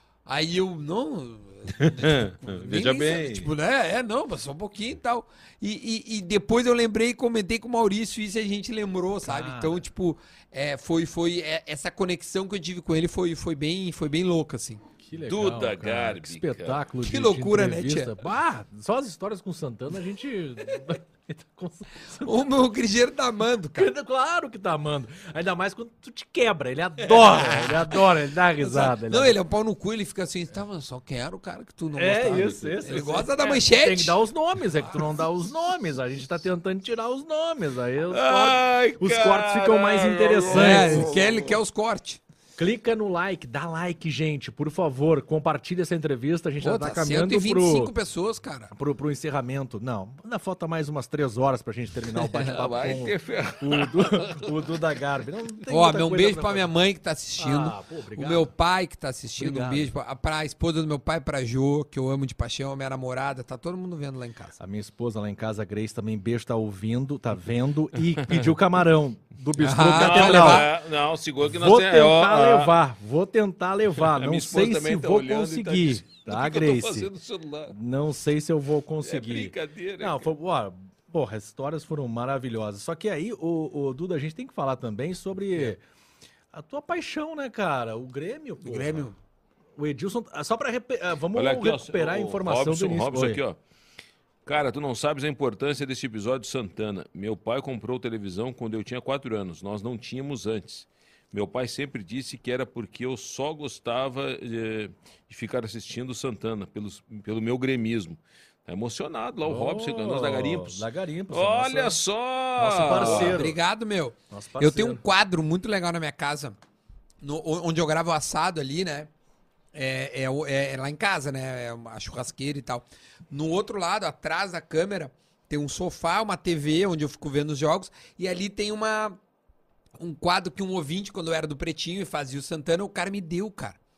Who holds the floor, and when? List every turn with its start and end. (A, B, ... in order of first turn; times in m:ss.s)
0:00.3-0:14.8 A
0:01.8-0:03.5 B
0:03.0-0:03.4 C
0:09.2-0:09.8 C
0:15.0-0:22.3 C
0:15.2-0:16.8 B
0:17.0-0:18.1 A
0:22.2-0:23.9 A
0:23.8-0:29.4 C
0:27.2-0:28.0 A
0:28.6-0:34.2 A
0:31.9-0:41.1 C
0:32.3-0:33.1 B
0:38.1-0:41.6 B
0:40.5-0:42.2 A
0:42.6-0:47.9 C
0:46.6-0:48.7 A
0:48.7-0:56.7 C
0:52.4-0:54.6 B
0:55.7-1:04.6 A
0:57.4-0:58.5 C
0:59.4-0:59.9 C
1:04.6-1:10.7 C
1:09.6-1:10.7 A
1:09.9-1:12.7 B
1:11.4-1:17.1 C
1:14.0-1:17.8 B
1:17.7-1:25.8 C
1:19.0-1:20.3 B
1:26.5-1:29.1 C
1:28.6-1:29.2 A
1:29.8-1:33.4 C
1:31.3-1:33.6 B
1:34.4-1:53.4 B
1:49.4-1:52.0 C
1:52.6-1:53.6 C
1:52.9-1:56.6 A
1:54.3-1:55.0 C
1:57.2-1:59.1 A
1:59.7-2:09.2 A
2:10.0-2:13.8 A